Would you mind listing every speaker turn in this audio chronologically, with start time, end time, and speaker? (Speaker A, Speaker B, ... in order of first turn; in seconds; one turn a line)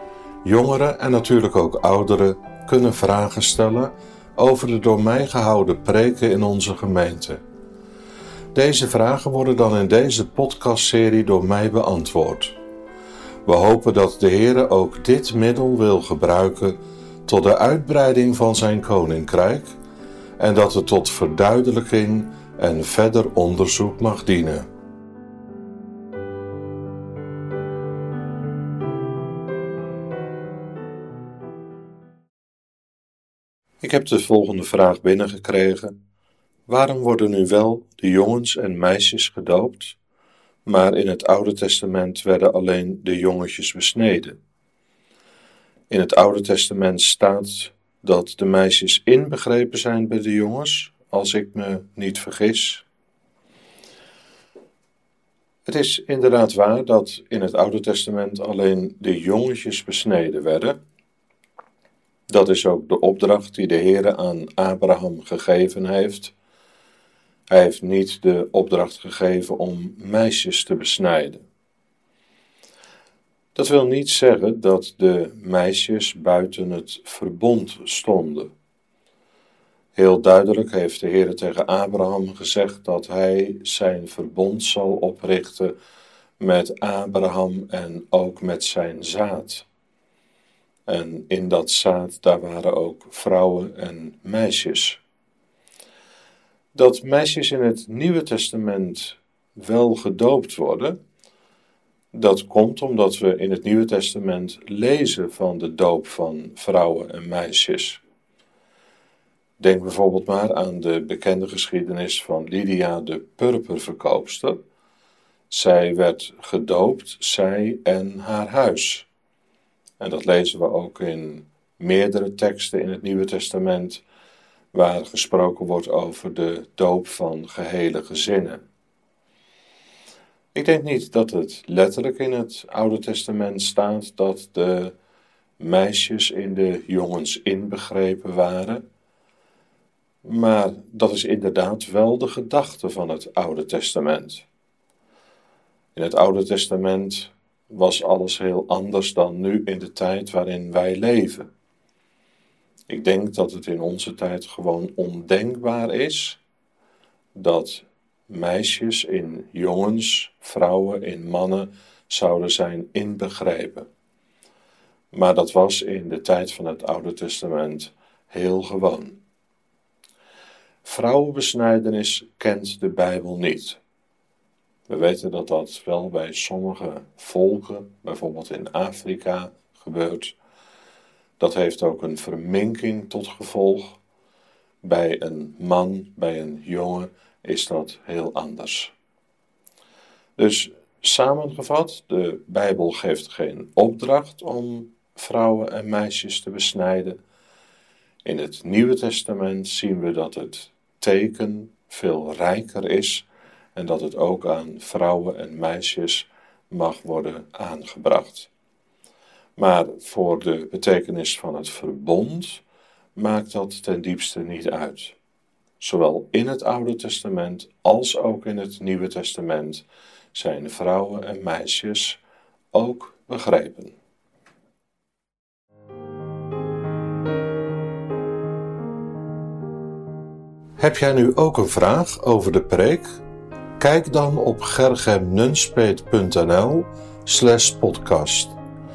Speaker A: 0.4-7.4
Speaker A: 8.5-12.5
Speaker A: 13.5-19.8
Speaker A: 20.4-24.7
Speaker A: 33.8-36.0
Speaker A: 36.7-40.0
Speaker A: 40.6-44.4
Speaker A: 45.9-52.9
Speaker A: 55.6-60.8
Speaker A: 62.3-66.3
Speaker A: 67.5-71.5
Speaker A: 73.5-78.5
Speaker A: 80.0-85.8
Speaker A: 86.4-89.7
Speaker A: 90.9-95.0
Speaker A: 96.7-101.0
Speaker A: 102.1-108.0
Speaker A: 109.6-114.6
Speaker A: 115.5-119.1
Speaker A: 120.0-124.0
Speaker A: 124.7-128.6
Speaker A: 130.5-134.9
Speaker A: 135.6-138.8
Speaker A: 140.2-144.5
Speaker A: 145.9-151.5
Speaker A: 152.9-156.4
Speaker A: 157.3-163.9
Speaker A: 165.1-169.2
Speaker A: 170.8-173.8
Speaker A: 174.9-180.4
Speaker A: 181.4-184.0
Speaker A: 184.8-188.9
Speaker A: 190.4-197.2
Speaker A: 198.2-208.5
Speaker A: 209.6-212.6
Speaker A: 213.2-215.2
Speaker A: 215.8-222.2
Speaker A: 222.7-223.9
Speaker A: 230.8-233.2
Speaker A: 233.8-238.6